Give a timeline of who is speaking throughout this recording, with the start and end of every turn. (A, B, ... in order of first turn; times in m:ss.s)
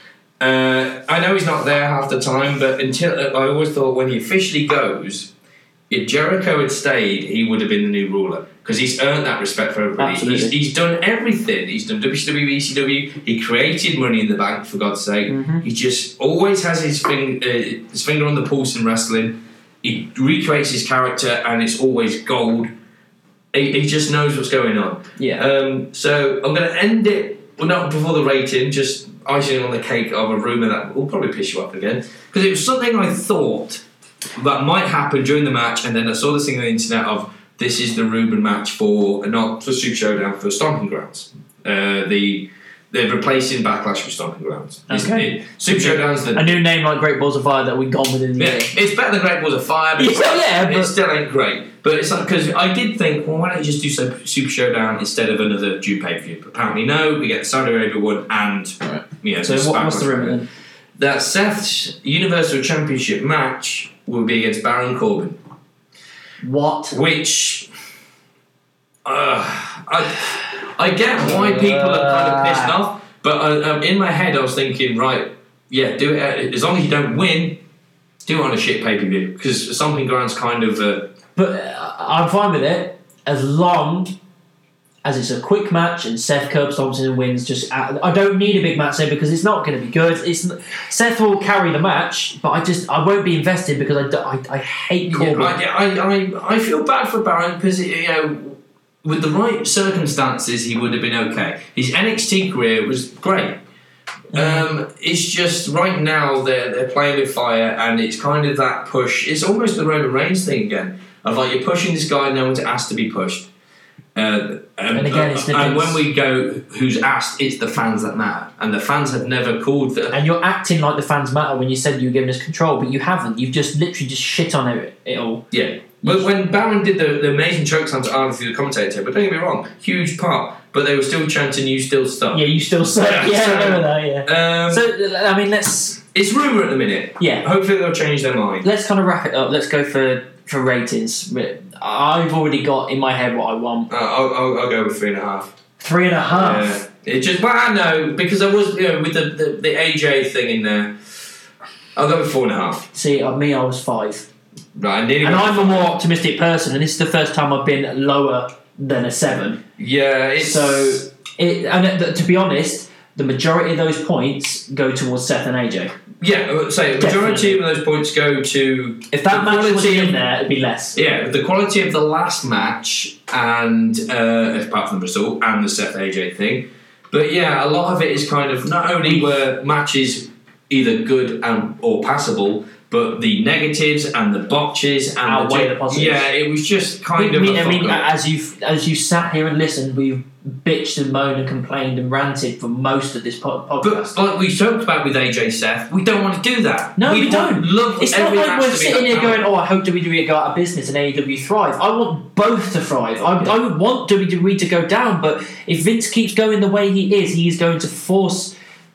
0:00.4-0:05.3 A
0:05.9-0:22.7 A
0:10.0-0:10.6 B
0:15.3-0:15.6 B
0:23.5-0:33.8 A
0:25.2-0:25.4 B
0:34.4-0:46.5 A
0:44.9-0:48.7 B
0:48.4-1:00.4 A
0:50.0-0:50.9 B
0:58.8-1:00.5 B
1:01.0-1:05.4 A
1:06.4-1:07.0 B
1:06.9-1:07.7 A
1:09.0-1:17.6 A
1:11.2-1:12.7 B
1:18.2-1:21.1 A
1:21.4-1:24.2 B
1:25.0-1:35.6 B
1:35.1-1:43.6 A
1:44.3-1:44.6 B
1:44.3-1:53.5 A
1:54.1-2:00.2 A
1:54.9-1:56.0 B
2:00.1-2:05.4 B
2:05.5-2:12.4 A
2:12.3-2:16.0 B
2:13.0-2:14.8 A
2:16.1-2:18.6 A
2:17.2-2:17.4 B
2:18.6-2:23.9 B
2:23.9-2:25.5 A
2:25.8-2:26.8 B
2:26.3-2:31.1 A
2:32.0-2:32.9 A
2:32.9-2:34.3 B
2:34.7-2:35.9 A
2:35.2-2:39.6 B
2:39.8-2:41.0 A
2:40.4-2:45.9 B
2:46.2-2:50.2 A
2:47.0-2:47.6 B
2:49.1-2:51.0 B
2:50.9-3:08.1 A
2:59.0-2:59.3 B
3:05.2-3:06.3 B
3:07.2-3:14.2 B
3:13.8-3:19.4 A
3:17.0-3:28.5 B